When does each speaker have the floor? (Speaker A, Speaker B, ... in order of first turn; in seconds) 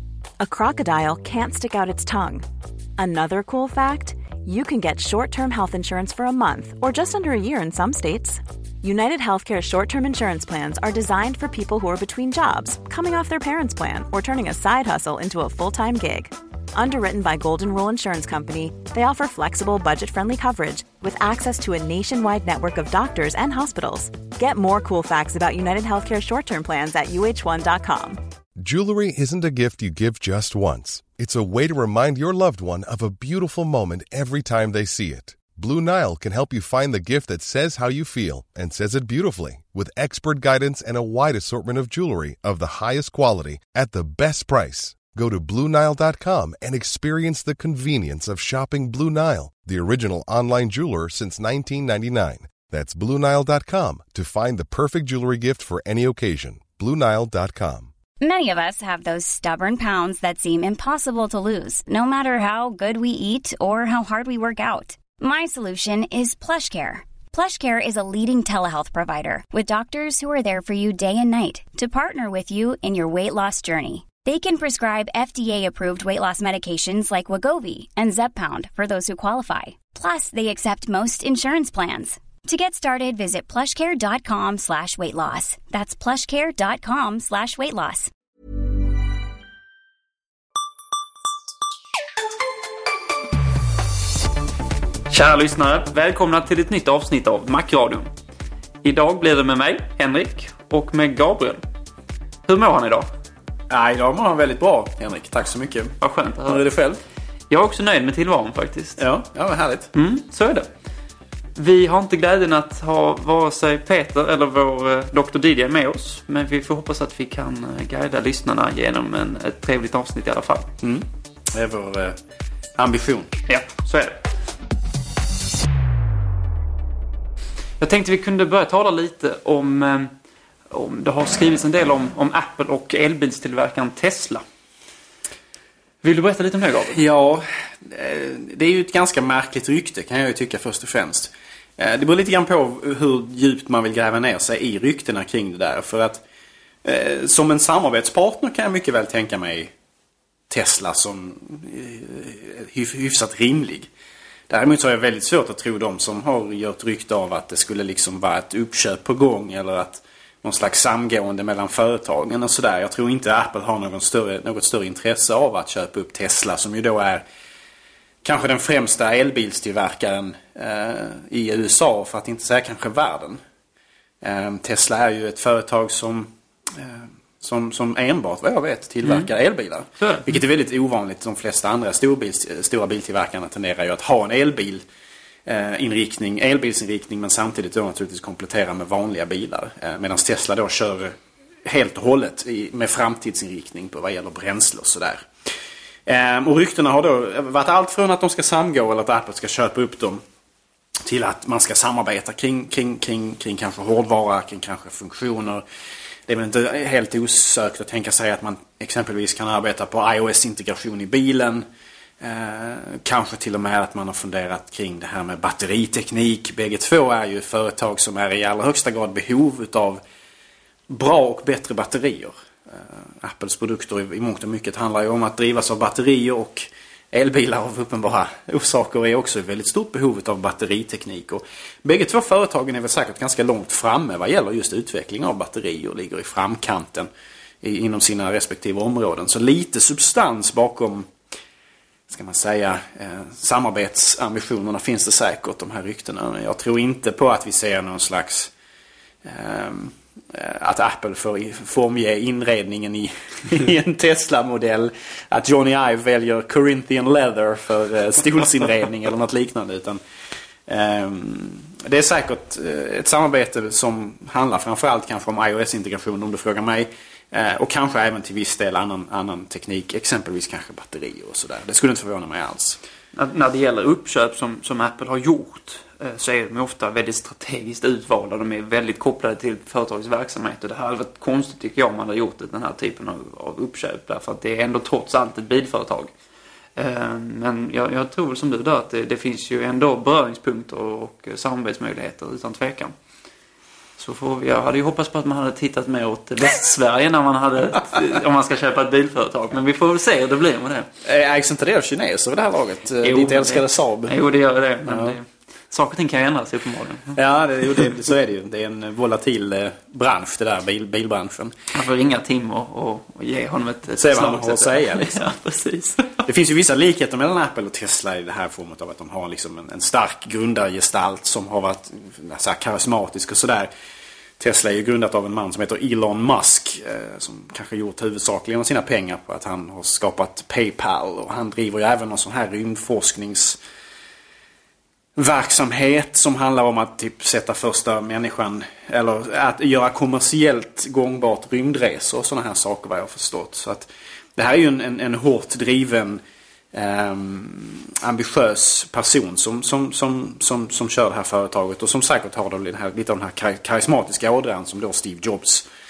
Speaker A: 0.4-2.5, 3.0-28.2
Speaker B: 28.6-57.9
Speaker C: 58.2-88.1
Speaker D: 95.1-98.1, 98.8-101.6, 102.5-103.1, 106.0-106.6, 107.5-109.0, 109.9-110.7, 111.6-120.7, 123.5-124.2, 127.8-130.1, 130.7-134.4, 136.0-137.0, 179.0-179.3, 180.0-180.4, 273.1-286.1, 286.8-292.9, 294.0-300.9, 303.0-307.1, 311.7-316.2
Speaker E: 103.7-107.0, 109.0-109.9, 120.8-122.2, 122.8-123.3, 136.9-146.2, 146.8-149.7, 150.5-153.9, 154.5-167.2, 168.2-173.4, 174.2-184.8, 185.5-195.3, 196.1-200.2, 201.0-205.6, 206.3-211.7, 212.2-220.0, 220.9-237.1, 237.6-241.1, 242.1-248.5, 249.2-260.0, 260.7-272.8, 301.0-304.2, 304.9-305.2, 307.1-311.6, 313.9-315.2, 316.2-323.7, 324.4-333.6, 335.1-346.2, 346.7-355.7